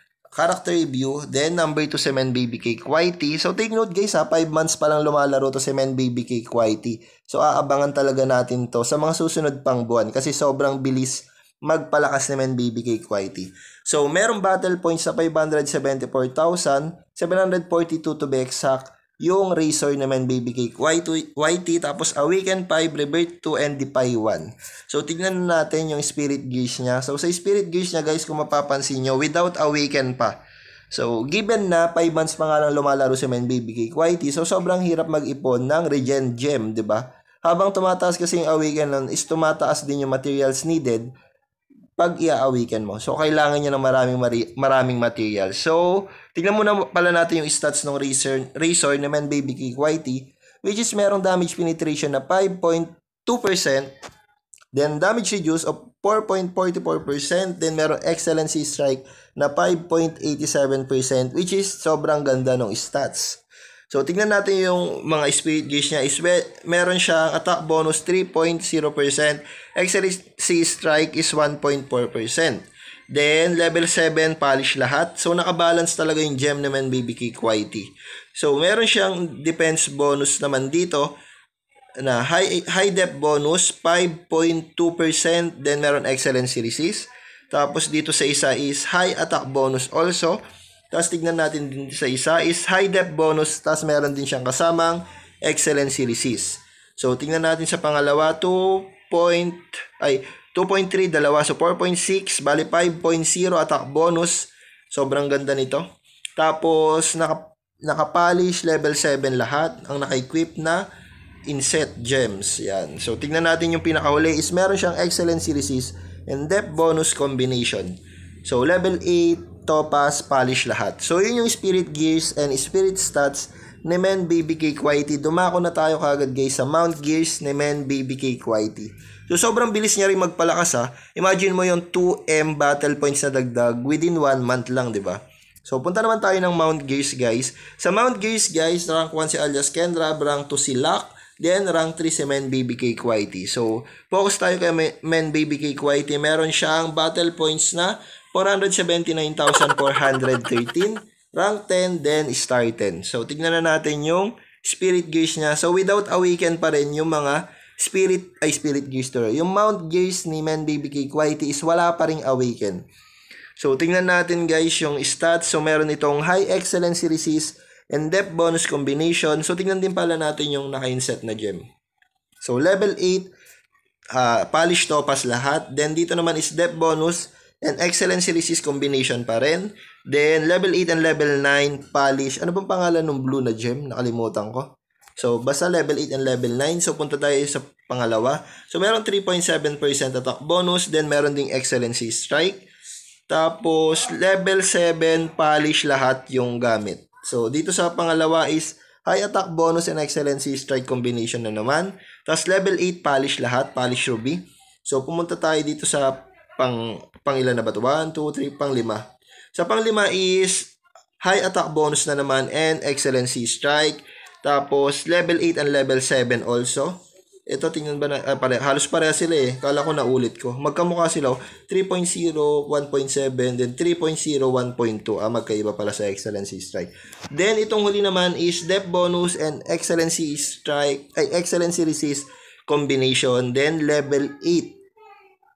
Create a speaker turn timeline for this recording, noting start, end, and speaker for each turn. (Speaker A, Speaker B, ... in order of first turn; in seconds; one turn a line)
Speaker A: 0.3-30.4
Speaker A: 30.9-41.1
Speaker A: 42.0-53.9
Speaker A: 54.7-81.1
Speaker A: 82.0-90.4
Speaker A: 90.9-105.8
Speaker A: 106.4-110.9
Speaker A: 111.5-162.8
Speaker A: 163.6-171.6
Speaker A: 172.4-173.3
Speaker A: 174.1-192.6
Speaker A: 193.3-234.8